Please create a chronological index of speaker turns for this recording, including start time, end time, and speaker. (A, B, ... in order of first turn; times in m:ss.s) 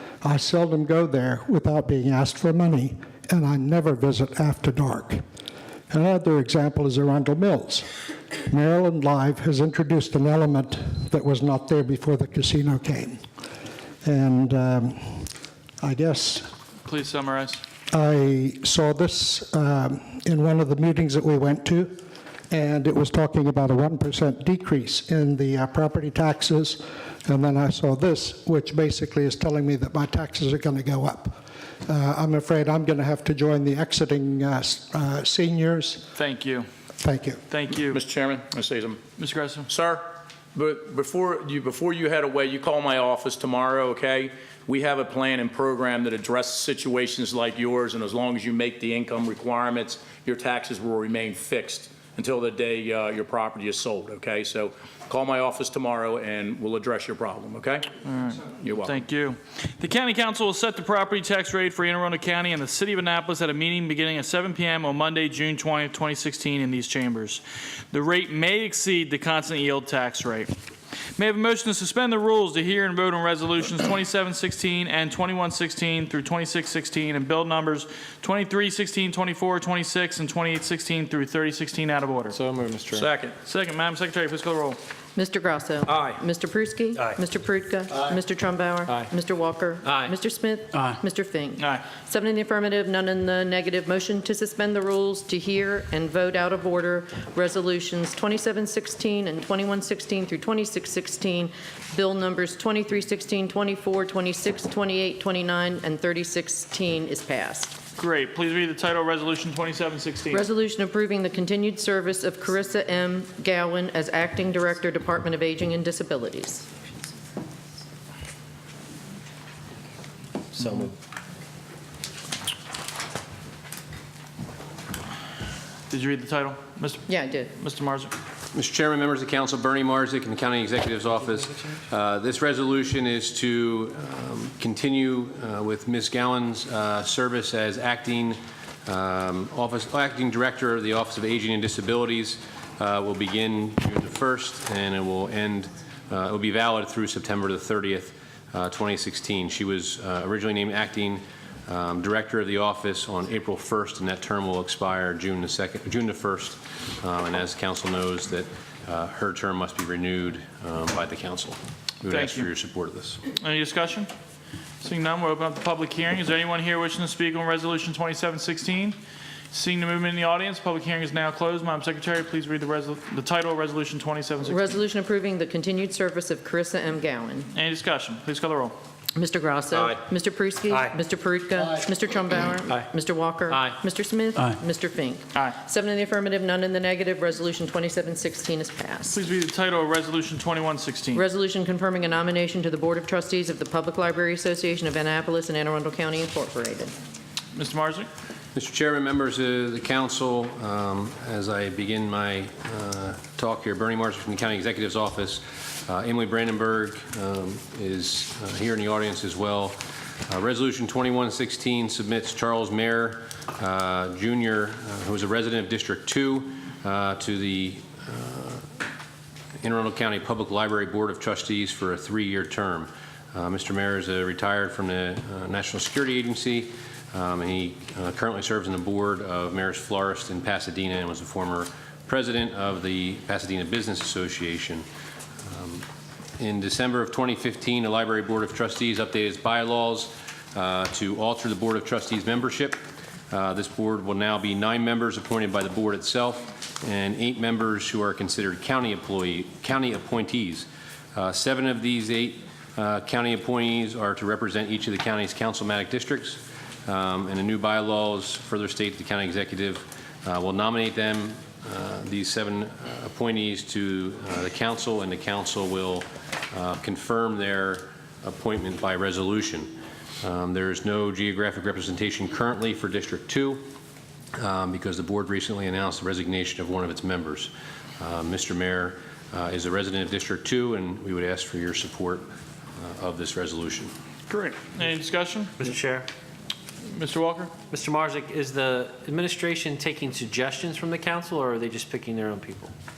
0:00.2-0:05.2 A
0:05.9-0:07.8 A
0:08.5-0:13.2 A
0:14.0-0:16.5 A
0:16.8-0:17.6 B
0:17.9-0:22.0 A
0:22.5-0:36.1 A
0:36.1-0:36.7 B
0:37.0-0:37.4 A
0:37.5-0:38.0 B
0:37.9-0:39.0 C
0:39.2-0:39.6 B
0:39.7-0:57.9 C
0:58.0-1:10.5 B
0:58.6-0:58.9 C
1:11.2-1:22.4 B
1:22.3-1:23.1 D
1:22.9-1:23.3 C
1:23.4-1:24.8 B
1:25.2-1:47.7 E
1:25.9-1:26.2 C
1:29.8-1:30.1 D
1:31.6-1:31.8 B
1:48.0-1:50.5 B
1:50.3-1:56.7 E
2:00.6-2:00.9 D
2:05.9-2:08.1 B
2:07.1-2:07.5 E
2:08.5-2:43.2 F
2:42.1-2:42.5 B
2:43.4-2:44.1 B
2:44.8-2:49.0 B
2:49.5-2:54.8 B
2:54.4-2:57.5 E
2:57.5-2:58.7 B
2:59.1-3:09.2 E
3:09.1-3:11.2 B
3:11.1-3:16.9 E
3:17.5-3:18.1 B
3:18.5-3:38.6 F
3:39.6-3:54.8 F
3:55.5-3:55.8 F
3:56.4-4:02.8 F
4:03.3-4:33.6 F
4:34.4-4:42.3 F
4:42.8-4:43.9 F
4:44.3-4:45.5 B
4:45.6-4:46.1 D
4:46.9-4:47.5 B
4:47.7-4:52.7 D